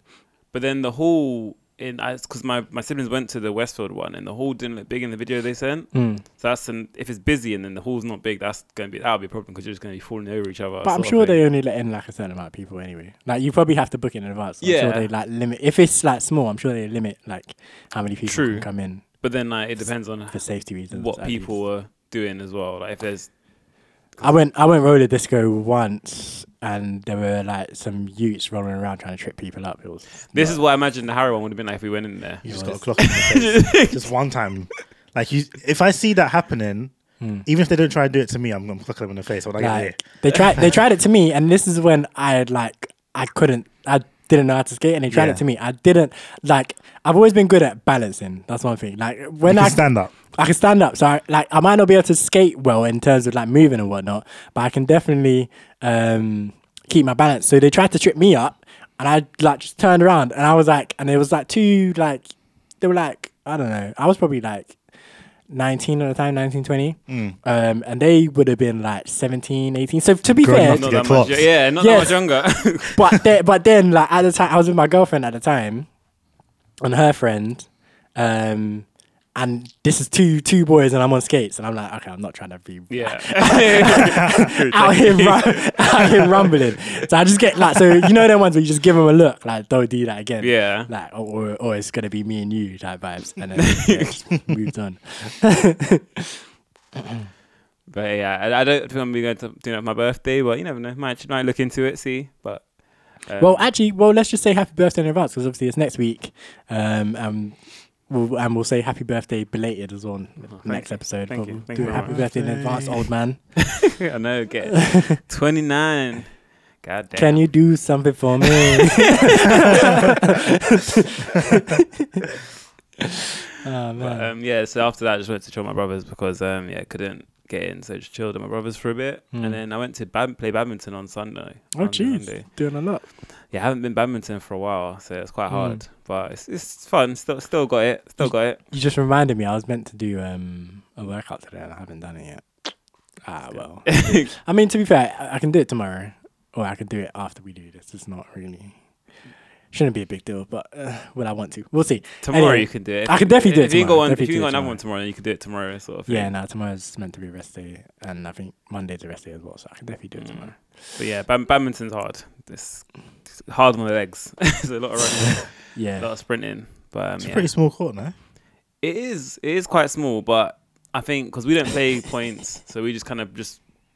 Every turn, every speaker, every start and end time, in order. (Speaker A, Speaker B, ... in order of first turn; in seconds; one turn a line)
Speaker A: 0.5-11.4
Speaker B: 5.9-6.2
Speaker B: 10.8-19.0
Speaker A: 14.6-15.1
Speaker A: 18.3-23.3
Speaker B: 20.3-21.6
Speaker B: 24.2-30.6
Speaker A: 30.3-32.5
Speaker C: 32.4-36.9
Speaker B: 32.5-33.0
Speaker A: 33.0-34.1
Speaker B: 37.2-37.5
Speaker C: 37.5-40.0
Speaker B: 39.6-64.8
Speaker C: 45.1-45.4
Speaker C: 49.5-50.1
Speaker B: 65.5-71.0
Speaker C: 67.1-67.4
Speaker C: 70.4-71.5
Speaker A: 70.5-73.0
Speaker B: 71.8-72.2
Speaker B: 72.9-75.9
Speaker B: 76.8-96.4
Speaker A: 82.9-86.6
Speaker A: 90.4-90.9
Speaker A: 93.6-94.1
Speaker B: 97.0-97.3
Speaker A: 97.9-103.7
Speaker B: 103.4-107.6
Speaker B: 108.1-113.4
Speaker A: 110.5-112.2
Speaker C: 111.8-113.1
Speaker A: 113.8-117.6
Speaker B: 114.8-115.2
Speaker B: 117.2-122.2
Speaker A: 118.4-120.0
Speaker B: 123.6-124.3
Speaker A: 124.0-132.5
Speaker B: 129.3-129.6
Speaker B: 131.8-133.0
Speaker A: 133.5-138.6
Speaker B: 135.5-135.8
Speaker B: 138.2-142.4
Speaker B: 143.2-148.8
Speaker A: 143.8-144.3
Speaker B: 149.7-154.8
Speaker A: 152.2-156.3
Speaker B: 156.1-160.6
Speaker A: 160.2-167.5
Speaker B: 165.7-166.1
Speaker C: 167.2-168.1
Speaker A: 168.8-173.6